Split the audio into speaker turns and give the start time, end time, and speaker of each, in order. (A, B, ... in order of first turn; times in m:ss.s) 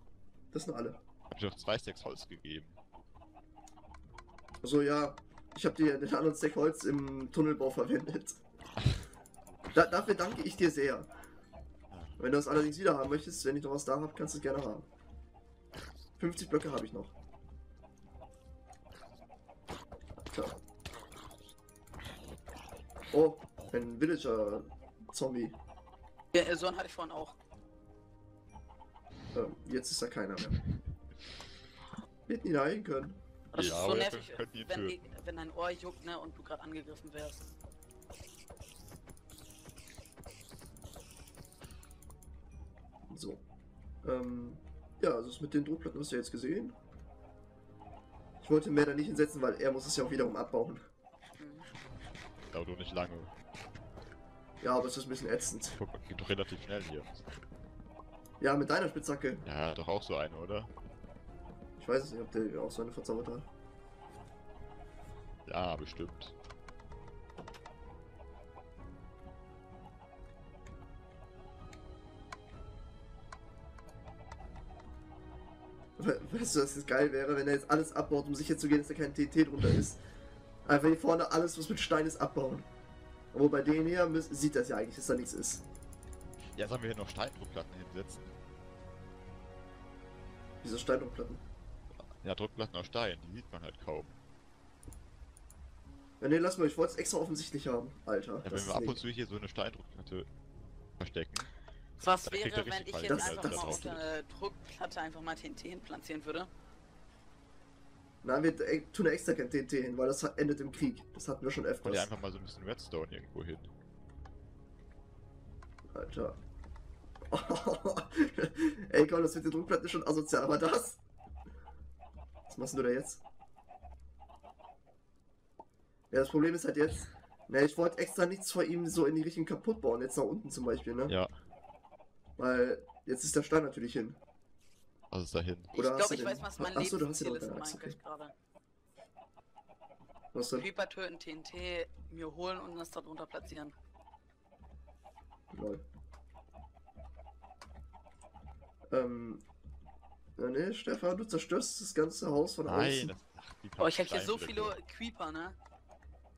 0:00.5-0:01.0 A
0:01.3-0:02.8 B
0:04.6-0:08.4 A
0:09.7-0:11.1 A
0:11.9-0:12.2 B
0:12.2-0:14.9 A
0:16.2-0:17.1 A
0:20.3-0:20.6 A
0:23.1-0:25.6 A
0:26.3-0:27.4 C
0:29.3-0:30.6 A
0:32.3-0:33.2 A
0:33.5-0:37.5 C
0:33.5-0:35.0 B
0:43.1-0:43.4 A
0:44.0-0:46.8 A
0:48.4-0:50.8 A
0:51.4-0:51.7 C
0:52.5-0:53.3 B
0:54.6-0:55.8 A
0:55.8-0:57.3 B
0:58.4-0:59.4 A
0:59.4-1:00.7 B
1:01.8-1:03.5 A
1:05.4-1:06.4 B
1:16.0-1:20.0 A
1:20.6-1:22.7 A
1:23.3-1:25.6 A
1:26.5-1:28.3 B
1:30.6-1:31.4 A
1:32.2-1:34.1 B
1:36.2-1:39.0 A
1:38.4-1:40.3 B
1:41.0-1:41.5 B
1:42.0-1:46.5 C
1:42.1-1:44.0 B
1:43.1-1:43.8 A
1:48.2-1:52.2 A
1:51.8-1:53.7 B
1:55.9-1:56.4 A
1:57.3-2:01.0 A
2:02.5-2:03.2 A
2:06.1-2:11.1 A
2:12.4-2:14.2 A
2:15.1-2:15.7 B
2:15.7-2:18.3 C
2:15.7-2:18.0 A
2:20.3-2:20.7 A
2:20.5-2:23.7 C
2:25.5-2:25.8 A
2:28.9-2:29.4 A
2:30.4-2:33.1 A
2:32.7-2:34.8 B
2:33.8-2:35.5 C